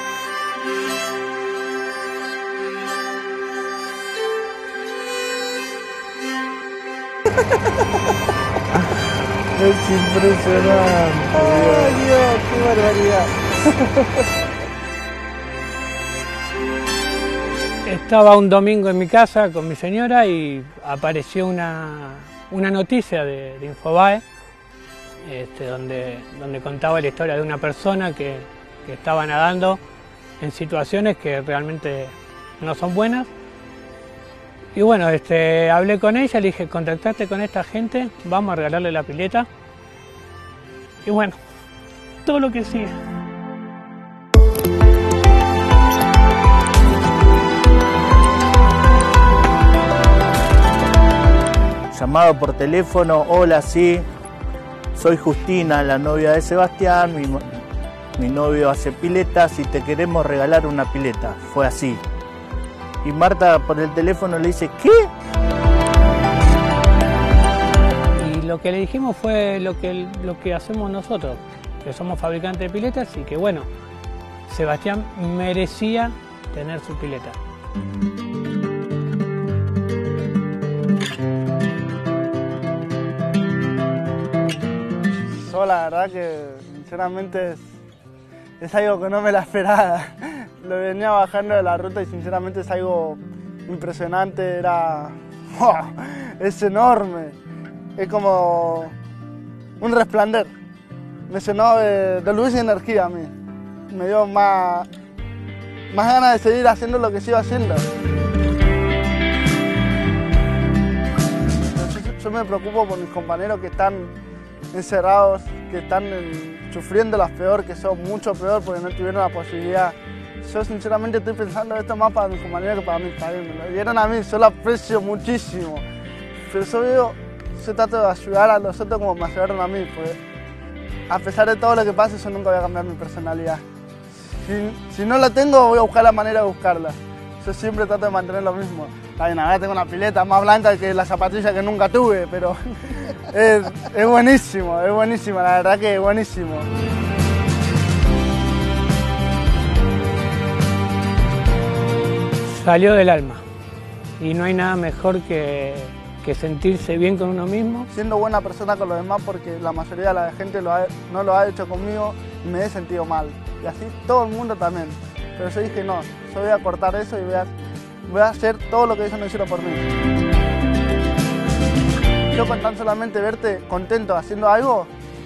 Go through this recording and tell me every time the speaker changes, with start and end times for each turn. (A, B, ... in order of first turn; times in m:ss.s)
0:09.5-0:12.0 A
0:11.4-0:13.3 B
0:17.8-0:24.2 C
0:25.2-0:29.8 C
0:30.4-0:33.3 C
0:34.7-0:39.5 C
0:41.0-0:41.4 C
0:42.2-0:43.0 C
0:51.9-0:54.1 A
0:54.9-0:57.4 A
0:58.2-1:02.0 A
1:03.0-1:05.1 A
1:08.2-1:13.7 C
1:14.5-1:17.4 C
1:25.4-1:27.7 B
1:28.6-1:37.4 B
1:38.0-1:38.9 B
1:39.8-1:40.5 B
1:41.3-1:43.3 B
1:43.9-1:44.9 B
1:45.9-1:47.9 B
1:51.7-1:54.1 B
1:54.7-2:05.8 B
2:06.5-2:10.2 B
2:11.1-2:13.6 B
2:14.2-2:26.7 B
2:32.5-2:33.4 C
2:34.2-2:37.9 C
2:37.9-2:47.5 B
2:48.1-2:49.9 B
2:52.3-2:54.9 B